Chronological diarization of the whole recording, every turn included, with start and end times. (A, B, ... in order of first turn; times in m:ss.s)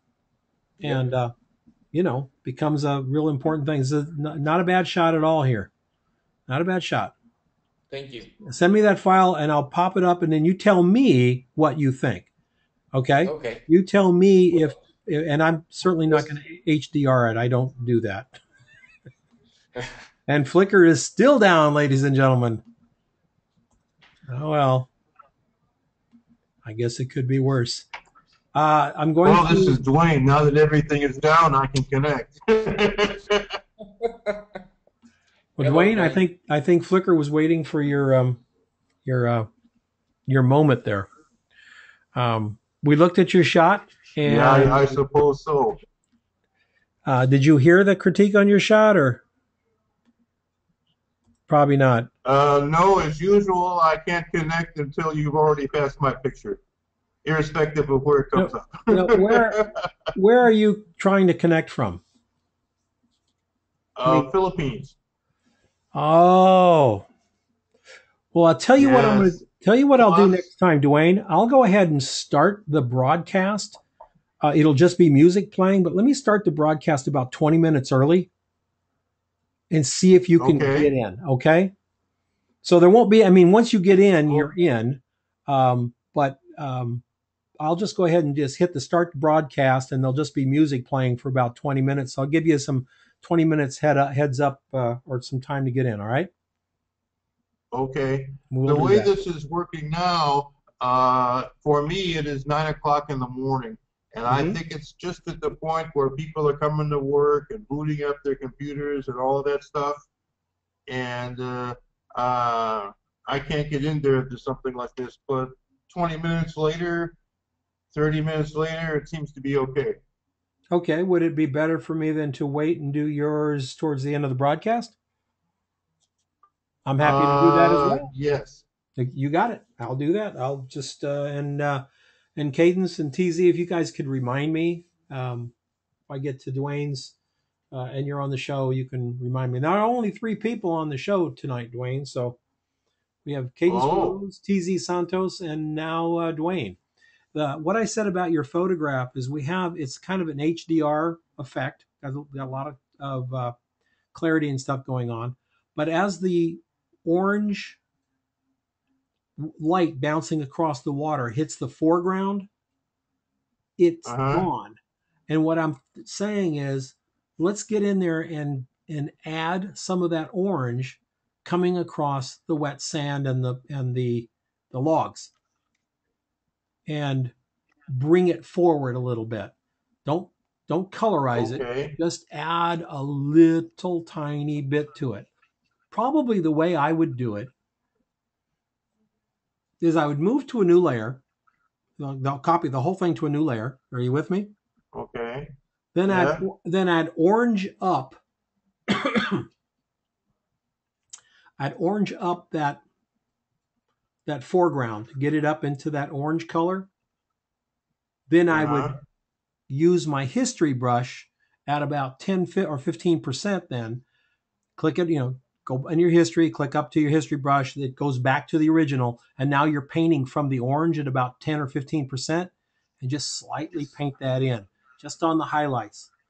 0:00.8-0:01.3 A
0:01.9-0:05.7 A
0:06.5-0:07.1 A
0:07.9-0:08.3 B
0:08.4-0:12.3 A
0:12.9-0:18.4 A
0:13.2-0:13.6 B
0:20.3-0:22.6 A
0:24.3-0:24.9 A
0:26.6-0:27.9 A
0:28.5-0:29.8 A
0:29.2-0:33.5 C
0:34.0-0:34.4 B
0:35.6-0:36.2 B
0:35.6-0:38.4 A
0:39.0-0:39.5 A
0:40.3-0:41.1 A
0:42.1-0:45.0 A
0:44.2-0:45.8 C
0:47.0-0:49.2 A
0:51.5-0:52.1 A
0:52.2-0:56.6 C
0:57.2-0:59.8 C
0:58.4-0:59.6 A
1:00.1-1:02.0 A
1:04.0-1:04.9 C
1:04.0-1:04.3 A
1:05.9-1:07.0 A
1:08.3-1:13.8 A
1:08.8-1:09.4 C
1:10.0-1:10.4 C
1:14.4-1:18.3 A
1:19.7-1:21.7 A
1:20.4-1:20.9 C
1:22.6-1:27.0 A
1:27.6-1:36.3 A
1:37.7-1:50.0 C
1:38.5-1:39.1 A
1:44.3-1:44.6 A
1:50.9-1:57.2 C
1:57.9-2:00.0 C
2:00.7-2:04.9 A
2:06.8-2:08.1 A
2:07.0-2:08.6 C
2:09.0-2:11.8 A
2:12.4-2:15.5 A
2:16.1-2:17.1 A
2:17.7-2:22.4 A
2:23.2-2:26.8 A
2:23.6-2:24.2 C
2:27.3-2:33.5 A
2:34.1-2:37.8 A
2:39.4-2:42.5 A
2:43.8-2:55.3 A
2:44.0-2:44.5 C
2:56.8-2:57.3 A
2:57.9-2:59.5 A
3:00.0-3:05.3 A
3:01.3-3:01.9 C
3:05.9-3:07.5 A
3:09.8-3:11.2 A
3:12.0-3:14.5 A
3:14.9-3:15.5 C
3:15.9-3:18.2 A
3:16.1-3:16.4 C
3:18.9-3:19.4 A
3:21.6-3:22.8 A
3:24.2-3:26.9 A
3:28.3-3:28.9 A
3:28.5-3:29.0 C
3:29.7-3:34.0 A
3:34.8-3:46.1 A